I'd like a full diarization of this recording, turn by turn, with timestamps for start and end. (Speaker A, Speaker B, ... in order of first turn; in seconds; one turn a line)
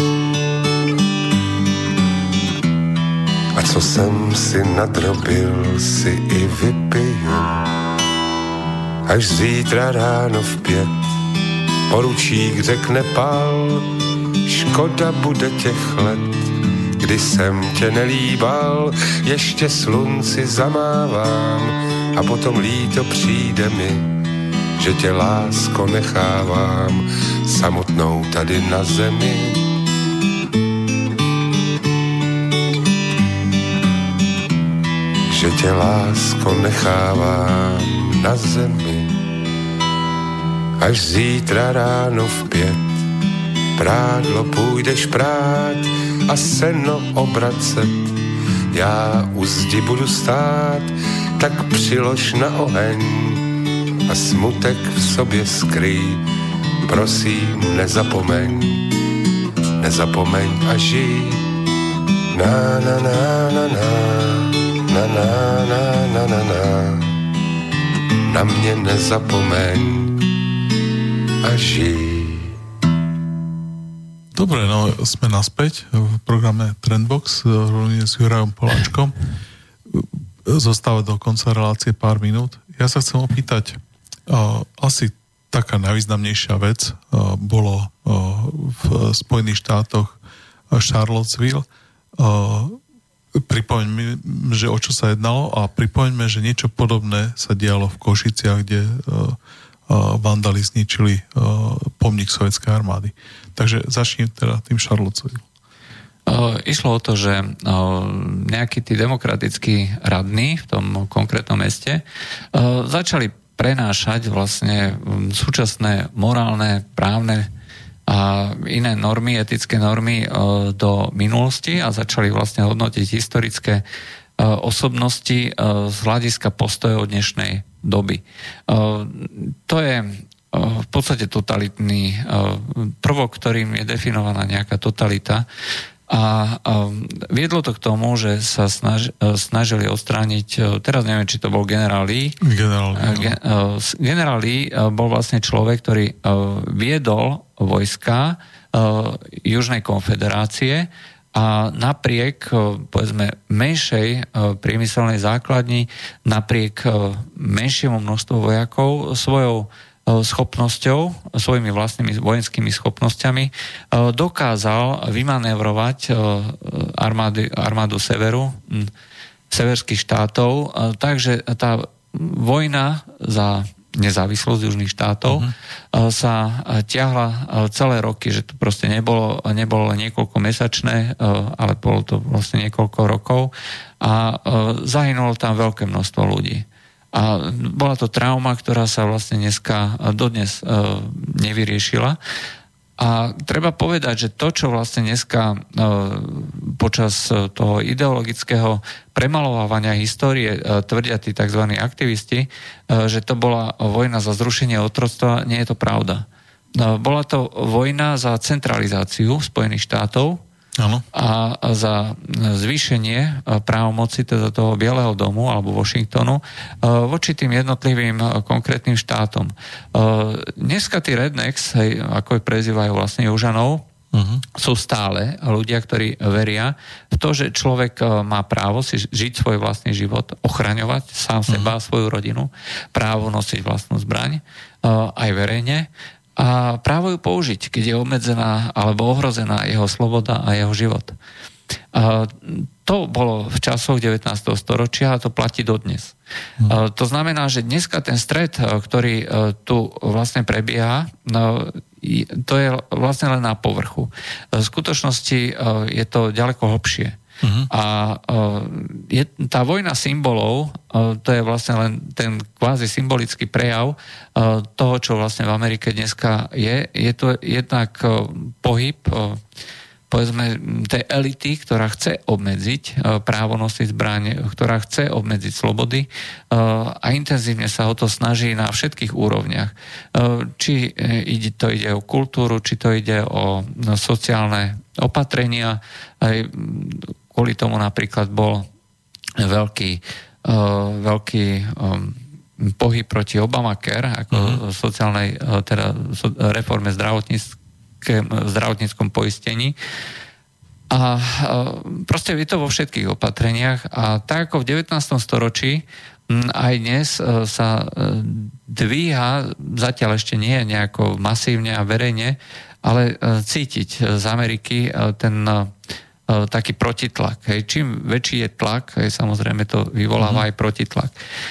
Speaker A: 3.5-7.6
Speaker A: 9.1-11.1
Speaker A: 11.9-13.9
Speaker A: 14.4-16.4
Speaker A: 17.0-24.1
Speaker A: 24.8-29.6
Speaker A: 35.3-39.2
Speaker A: 40.8-43.0
Speaker A: 43.8-48.2
Speaker A: 48.7-53.4
Speaker A: 54.1-56.2
Speaker A: 56.8-58.8
Speaker A: 59.8-61.4
Speaker A: 62.3-67.1
Speaker A: 68.3-70.2
Speaker A: 71.4-72.6
Speaker B: 74.3-79.2
Speaker B: 79.9-90.2
Speaker B: 90.7-91.7
Speaker B: 92.2-92.8
Speaker B: 93.3-99.4
Speaker B: 99.9-105.4
Speaker C: 106.3-112.0
Speaker C: 112.5-117.5
Speaker C: 118.1-123.8
Speaker C: 124.4-135.5
Speaker C: 136.1-142.4
Speaker B: 142.4-143.4
Speaker C: 142.9-168.9
Speaker C: 169.5-192.2
Speaker C: 193.0-206.2
Speaker C: 206.8-210.4
Speaker B: 210.8-211.1
Speaker C: 211.1-223.9
Speaker B: 224.1-224.4
Speaker C: 224.6-241.2
Speaker C: 241.9-246.2
Speaker C: 246.7-257.2
Speaker B: 257.4-257.7
Speaker C: 257.7-269.4
Speaker C: 270.1-288.7
Speaker C: 289.4-299.8
Speaker B: 294.3-294.6
Speaker C: 300.9-315.7
Speaker C: 316.3-321.1